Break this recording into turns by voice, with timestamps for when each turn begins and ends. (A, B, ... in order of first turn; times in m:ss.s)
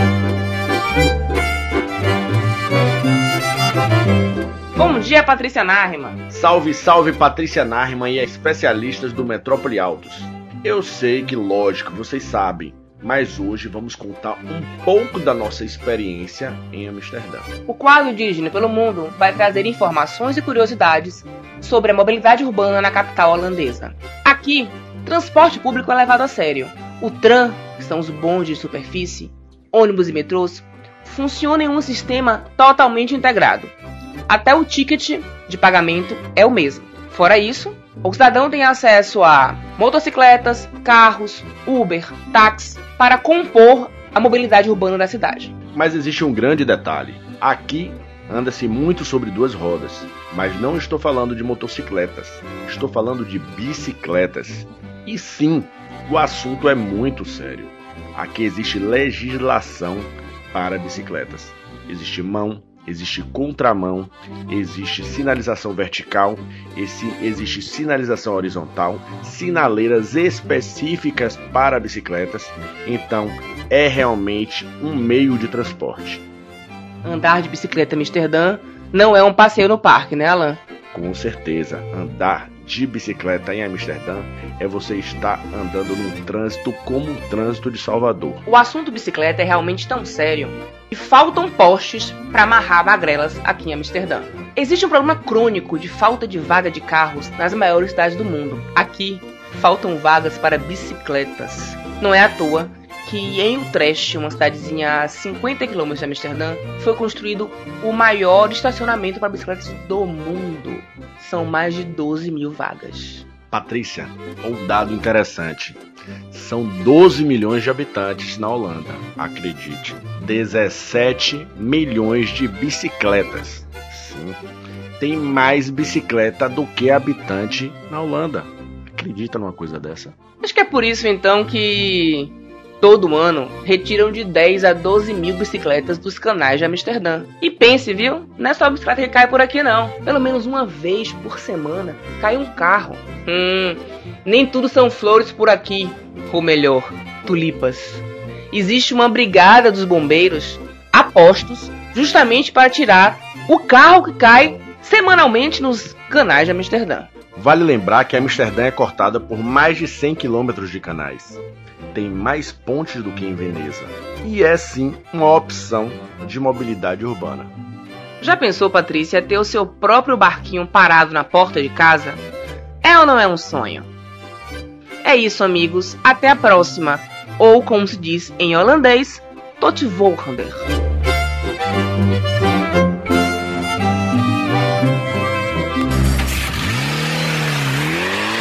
0:04.8-0:06.2 A
0:06.3-0:17.5 B
0:17.7-0:33.7 A
0:34.3-0:45.5 A
0:45.7-1:16.2 B
1:17.0-1:20.6 A
1:20.9-1:28.4 B
1:28.4-1:53.3 A
1:53.5-2:04.4 B
2:05.0-2:10.2 B
2:10.4-2:37.1 A
2:37.4-2:41.4 B
2:41.9-2:47.5 B
2:48.2-2:52.2 A
2:52.8-2:53.9 A
2:55.0-3:00.7 A